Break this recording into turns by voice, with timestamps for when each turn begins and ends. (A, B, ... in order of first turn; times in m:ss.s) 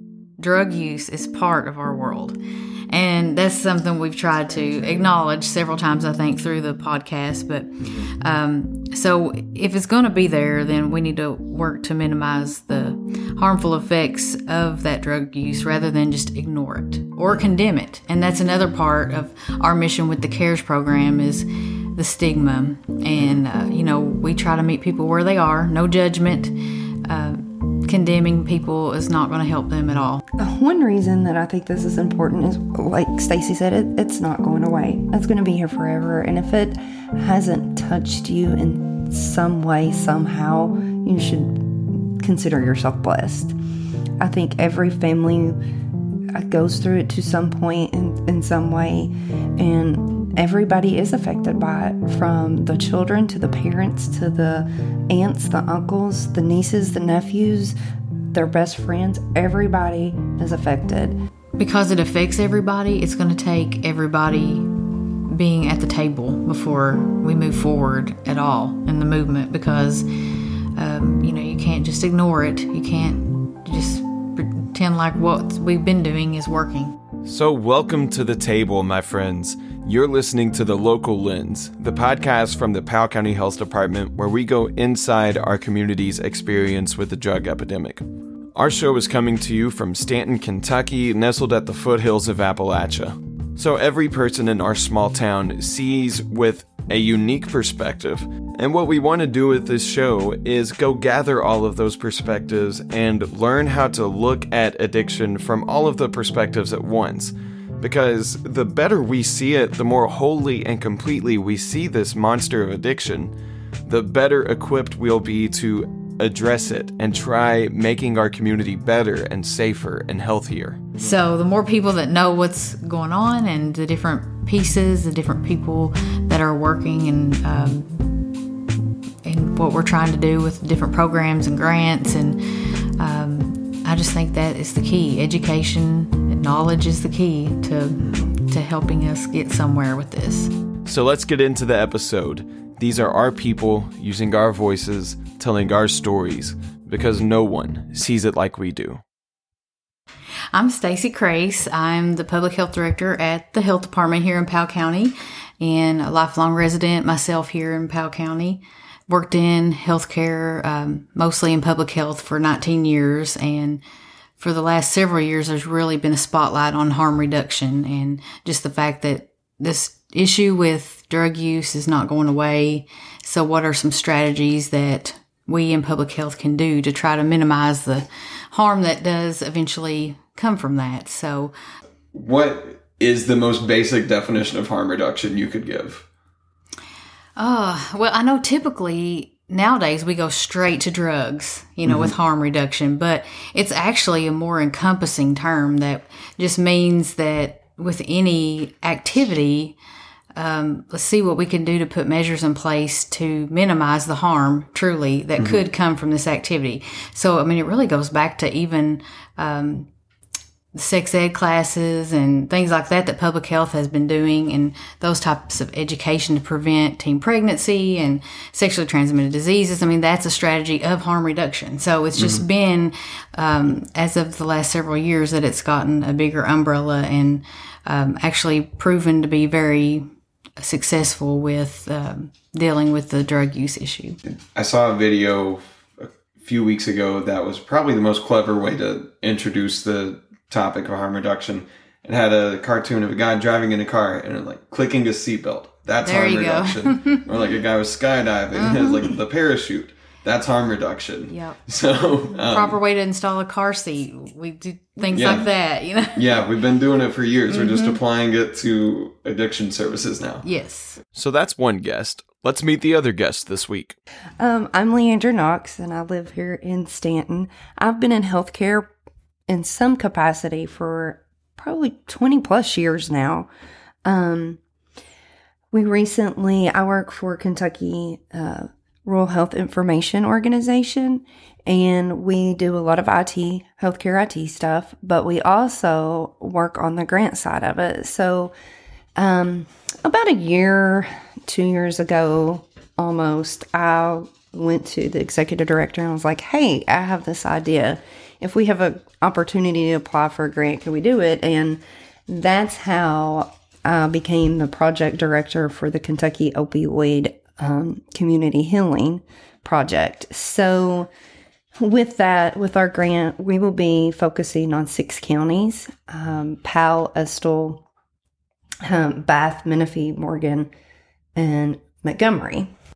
0:00.4-0:02.4 A
0:02.9-0:30.2 A
0:07.8-0:08.1 B
0:30.4-0:43.5 C
0:44.2-0:45.6 C
0:46.3-0:57.7 C
0:58.3-1:01.2 C
1:01.6-1:04.7 A
1:05.3-1:10.1 A
1:10.8-1:17.0 A
1:17.2-1:28.0 B
1:28.6-1:53.3 B
1:53.8-2:01.2 B
2:01.0-2:08.1 A
2:09.2-2:12.4 A
2:13.0-2:20.5 A
2:20.8-2:29.0 B
2:30.5-2:43.8 A
2:44.4-3:01.5 A
3:02.1-3:06.0 B
3:07.4-3:19.8 A
3:11.8-3:12.1 B
3:20.3-3:29.9 A
3:25.4-3:25.6 B
3:30.7-3:50.1 A
3:42.2-3:42.4 B
3:50.6-3:54.2 A
3:54.5-4:12.8 B
4:06.0-4:07.2 A
4:08.6-4:09.0 A
4:11.3-4:11.6 A
4:12.3-4:16.3 A
4:15.1-4:15.5 B
4:16.1-4:20.4 B
4:17.5-4:18.0 C
4:20.4-4:21.0 A
4:21.1-4:24.0 B
4:24.4-4:28.9 C
4:29.5-4:33.5 C
4:34.0-4:34.6 C
4:35.7-4:48.5 C
4:49.2-5:11.1 C
5:11.7-5:17.8 C
5:18.8-5:20.7 C
5:21.4-5:22.7 C